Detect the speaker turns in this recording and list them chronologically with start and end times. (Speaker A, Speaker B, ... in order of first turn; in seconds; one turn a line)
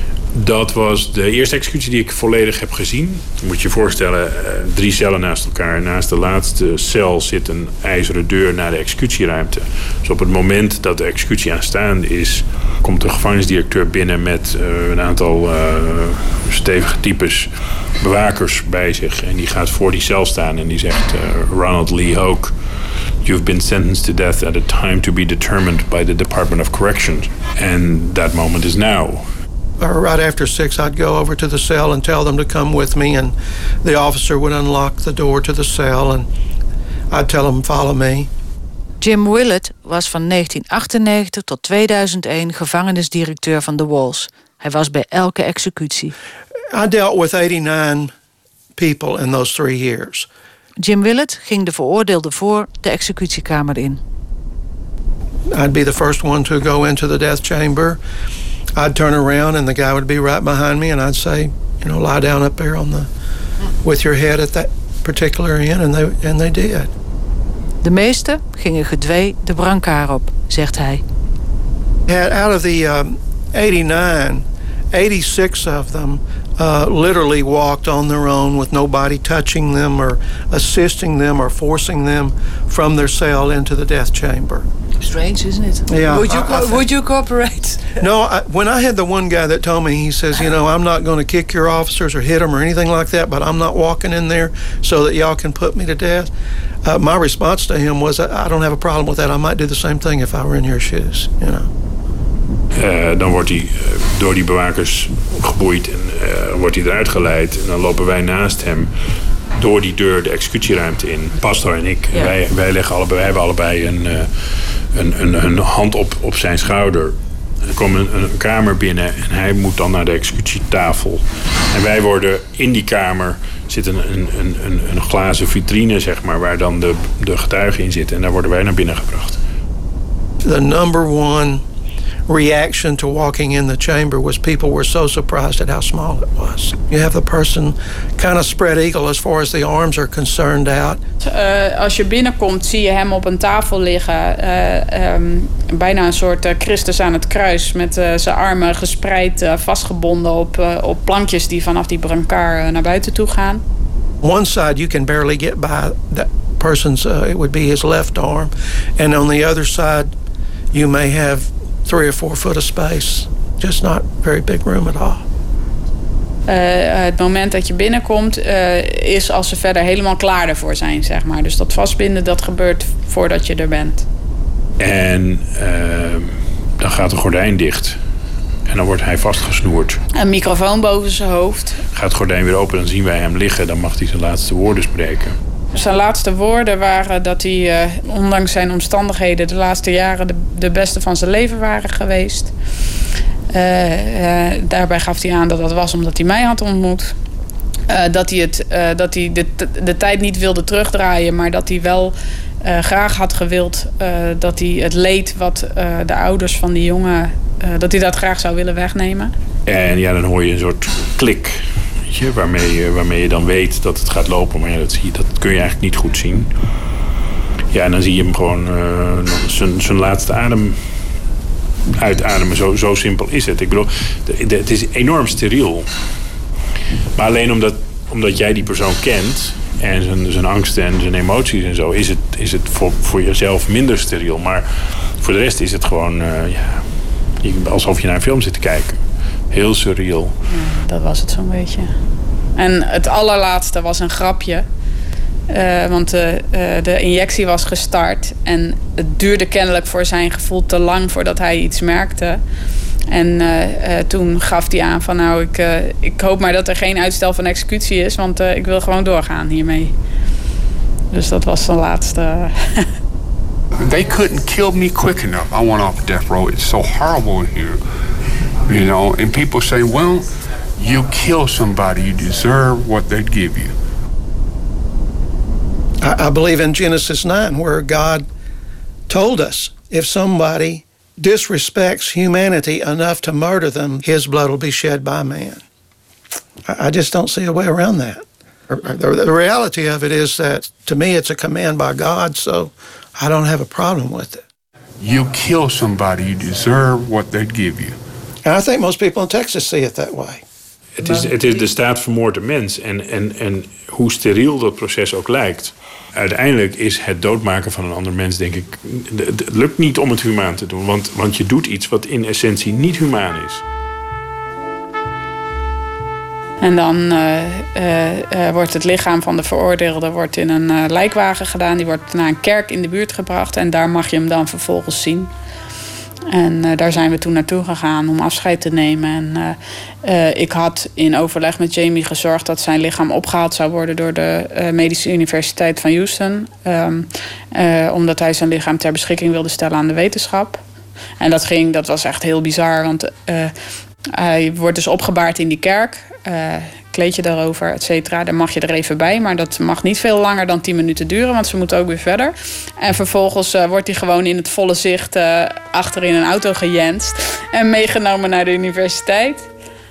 Speaker A: 0.3-22.5
Speaker A: 23.2-29.3
Speaker B: 29.8-36.3
Speaker B: 37.1-38.3
Speaker C: 39.0-46.1
Speaker B: 46.7-48.1
Speaker B: 48.8-50.3
Speaker C: 50.8-54.0
Speaker B: 55.5-58.0
Speaker B: 58.8-63.1
Speaker B: 63.8-66.9
Speaker C: 67.8-71.0
Speaker B: 72.1-84.7
Speaker C: 85.0-88.0
Speaker B: 85.9-86.9
Speaker B: 88.0-96.3
Speaker B: 96.9-101.7
Speaker A: 102.8-108.9
Speaker A: 109.6-129.4
Speaker B: 130.4-131.6
Speaker B: 132.3-141.0
Speaker D: 141.2-153.6
Speaker B: 154.2-160.1
Speaker B: 160.7-165.2
Speaker D: 166.5-174.1
Speaker A: 174.8-178.0
Speaker A: 178.7-180.0
Speaker D: 180.1-181.8
Speaker A: 181.9-185.4
Speaker D: 185.7-192.5
Speaker D: 193.5-197.1
Speaker D: 197.9-209.3
Speaker A: 209.7-216.5
Speaker A: 217.7-220.8
Speaker A: 222.0-225.9
Speaker A: 227.2-236.9
Speaker A: 237.4-240.3
Speaker D: 240.5-241.9
Speaker D: 242.6-244.7
Speaker D: 245.5-252.4
Speaker D: 253.1-259.9
Speaker D: 261.1-262.6
Speaker E: 263.8-267.8
Speaker E: 268.7-270.3
Speaker E: 270.8-273.7
Speaker B: 276.0-278.3
Speaker B: 279.1-285.6
Speaker B: 286.7-294.4
Speaker E: 295.0-298.0
Speaker B: 298.4-300.4
Speaker A: 301.0-313.6
Speaker C: 301.0-301.7
Speaker D: 316.6-325.3
Speaker D: 326.3-340.6
Speaker D: 341.2-343.5
Speaker D: 344.1-359.5